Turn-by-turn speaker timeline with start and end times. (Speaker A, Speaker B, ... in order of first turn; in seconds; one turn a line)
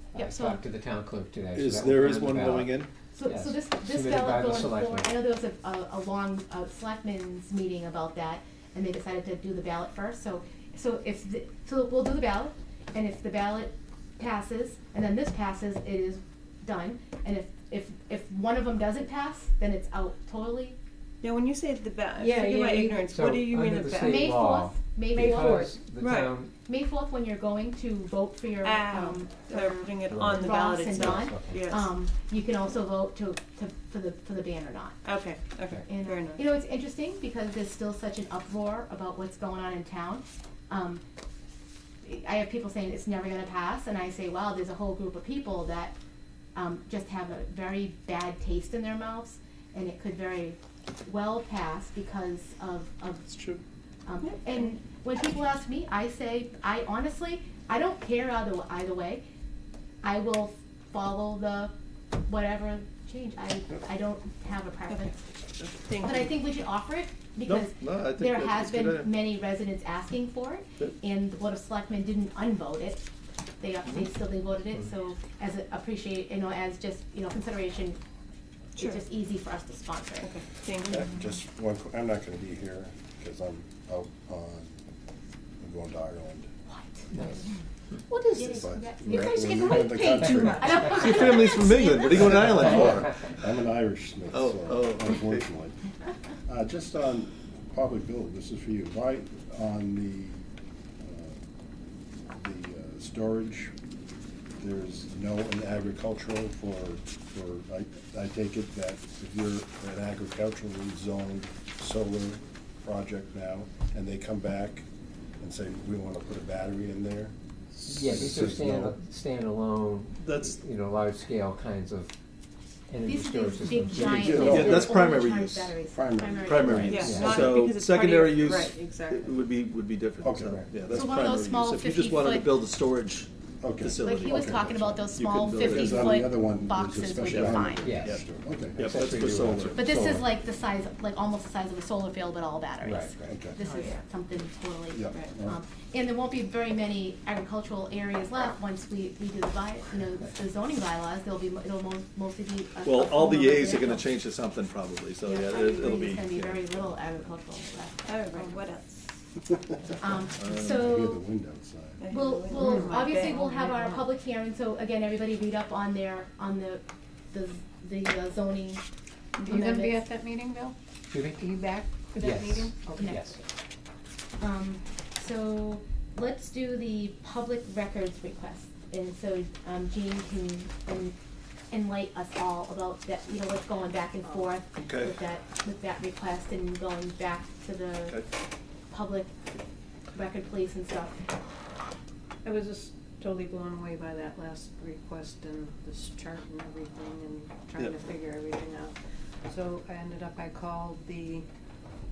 Speaker A: 0.1-0.6
Speaker B: 0.1-5.1
Speaker C: 1.6-2.9
Speaker A: 3.1-20.8
Speaker D: 21.2-24.2
Speaker E: 22.2-23.1
Speaker B: 23.1-26.5
Speaker A: 24.0-25.8
Speaker E: 25.1-25.6
Speaker D: 26.0-26.4
Speaker A: 26.7-35.0
Speaker D: 28.6-31.9
Speaker B: 30.1-31.8
Speaker D: 35.0-36.4
Speaker A: 35.9-41.0
Speaker A: 42.0-46.0
Speaker A: 46.5-53.3
Speaker C: 53.3-53.6
Speaker A: 54.0-59.2
Speaker D: 54.2-54.6
Speaker A: 60.0-61.7
Speaker A: 62.3-65.2
Speaker D: 64.9-66.3
Speaker A: 66.0-73.0
Speaker C: 67.5-69.1
Speaker A: 73.6-78.0
Speaker D: 78.8-79.0
Speaker A: 78.8-80.3
Speaker D: 80.2-81.1
Speaker F: 80.9-84.7
Speaker F: 85.6-86.5
Speaker A: 86.7-87.1
Speaker B: 87.1-87.4
Speaker E: 88.1-91.4
Speaker A: 88.3-89.8
Speaker F: 88.5-90.8
Speaker A: 90.4-92.7
Speaker C: 90.9-93.2
Speaker F: 92.2-95.8
Speaker C: 94.3-95.5
Speaker F: 96.5-100.5
Speaker F: 101.0-101.4
Speaker F: 102.3-103.7
Speaker F: 104.6-114.9
Speaker F: 115.4-119.0
Speaker B: 117.9-122.1
Speaker C: 120.2-120.6
Speaker B: 122.9-124.7
Speaker A: 123.0-127.2
Speaker F: 123.9-125.0
Speaker C: 124.3-125.8
Speaker F: 125.9-127.6
Speaker C: 126.4-134.5
Speaker D: 126.9-129.4
Speaker B: 126.9-127.5
Speaker F: 130.2-131.0
Speaker A: 130.9-132.6
Speaker F: 133.6-138.8
Speaker A: 134.0-137.9
Speaker C: 135.1-136.1
Speaker C: 137.3-138.2
Speaker B: 137.8-138.2
Speaker C: 138.8-139.8
Speaker B: 138.8-140.3
Speaker A: 139.7-154.1
Speaker B: 142.8-143.3
Speaker F: 143.3-143.6
Speaker F: 144.9-145.6
Speaker C: 152.8-156.7
Speaker A: 155.2-158.2
Speaker D: 158.1-159.1
Speaker A: 160.0-161.2
Speaker C: 160.4-160.8
Speaker F: 160.4-162.0
Speaker D: 162.0-163.5
Speaker A: 162.1-168.8
Speaker E: 162.5-164.1
Speaker D: 169.4-169.7
Speaker A: 169.4-170.0
Speaker E: 169.5-170.8
Speaker B: 171.1-171.6
Speaker E: 171.4-173.2
Speaker B: 172.1-173.4
Speaker A: 173.0-173.2
Speaker A: 174.4-181.1
Speaker A: 181.7-188.2
Speaker E: 184.2-184.6
Speaker C: 184.7-185.1
Speaker A: 188.9-189.3
Speaker A: 190.1-191.1
Speaker E: 192.4-199.0
Speaker E: 199.5-201.5